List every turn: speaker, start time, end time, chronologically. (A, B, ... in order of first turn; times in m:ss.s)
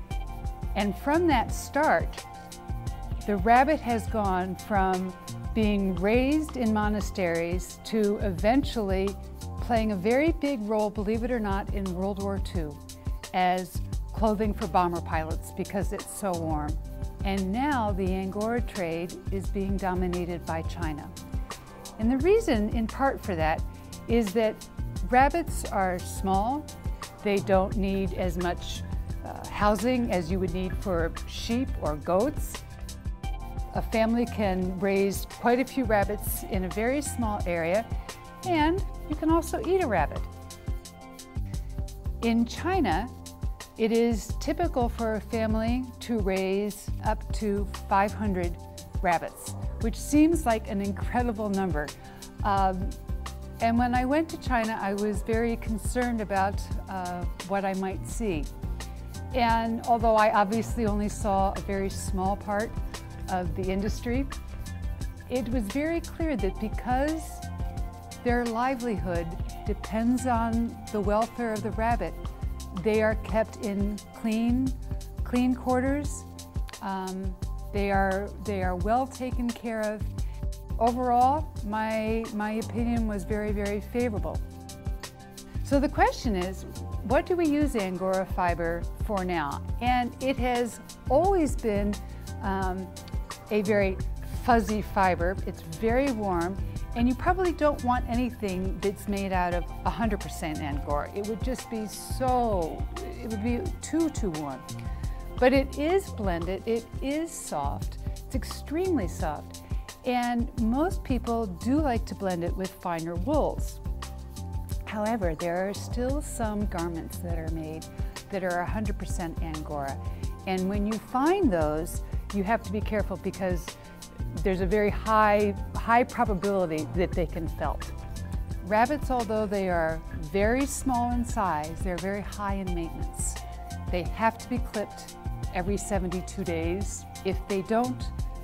0:00.7-0:02.2 A
0:03.2-0:12.8 A
0:13.3-0:21.1 A
0:22.0-0:26.7 A
0:27.2-0:32.6 A
0:33.7-0:37.9 A
0:38.4-0:40.3 A
0:42.2-0:43.1 A
0:43.8-0:53.0 A
0:53.6-0:58.5 A
0:59.3-1:04.3 A
1:05.3-1:07.4 A
1:08.2-1:16.3 A
1:16.8-1:20.1 A
1:20.8-1:24.4 A
1:25.6-1:32.9 A
1:33.5-1:44.6 A
1:45.4-1:53.8 A
1:54.8-2:03.7 A
2:04.3-2:07.9 A
2:08.6-2:18.1 A